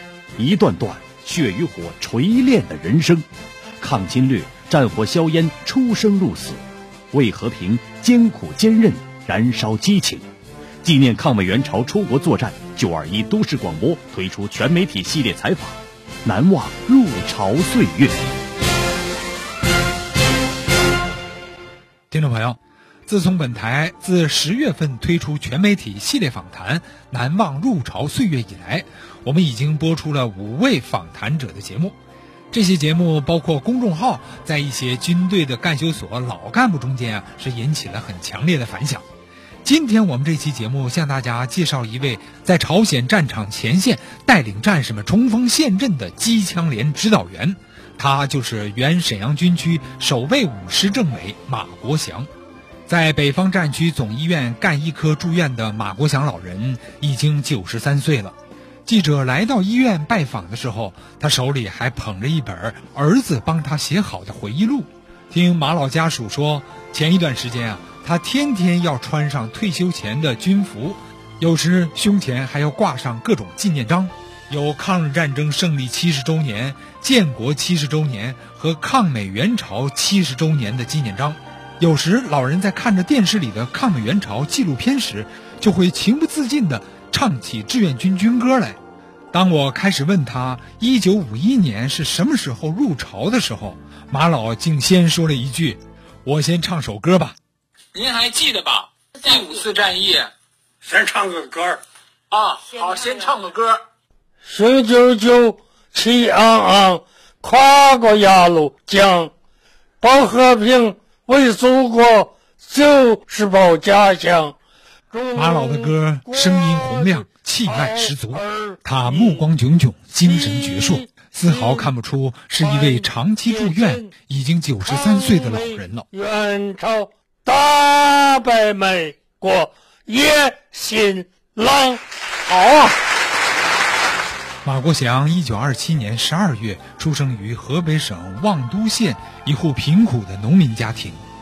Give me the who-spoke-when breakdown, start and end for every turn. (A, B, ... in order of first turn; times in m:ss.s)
0:00.4-0:03.3 A
0:03.8-0:10.3 A
0:10.8-0:18.2 A
0:22.1-0:32.0 B
0:32.5-0:39.0 B
0:39.6-0:52.3 B
0:52.9-0:58.3 B
0:58.8-1:28.8 B
1:29.3-1:37.4 B
1:37.9-1:40.3 C
1:40.8-1:41.8 D
1:42.3-1:43.8 C
1:44.4-1:49.3 D
1:50.0-1:54.6 D
1:55.1-1:59.4 D
1:55.3-2:06.0 B
2:00.2-2:01.9 D
2:02.6-2:04.1 D
2:04.8-2:12.0 D
2:14.6-2:21.2 B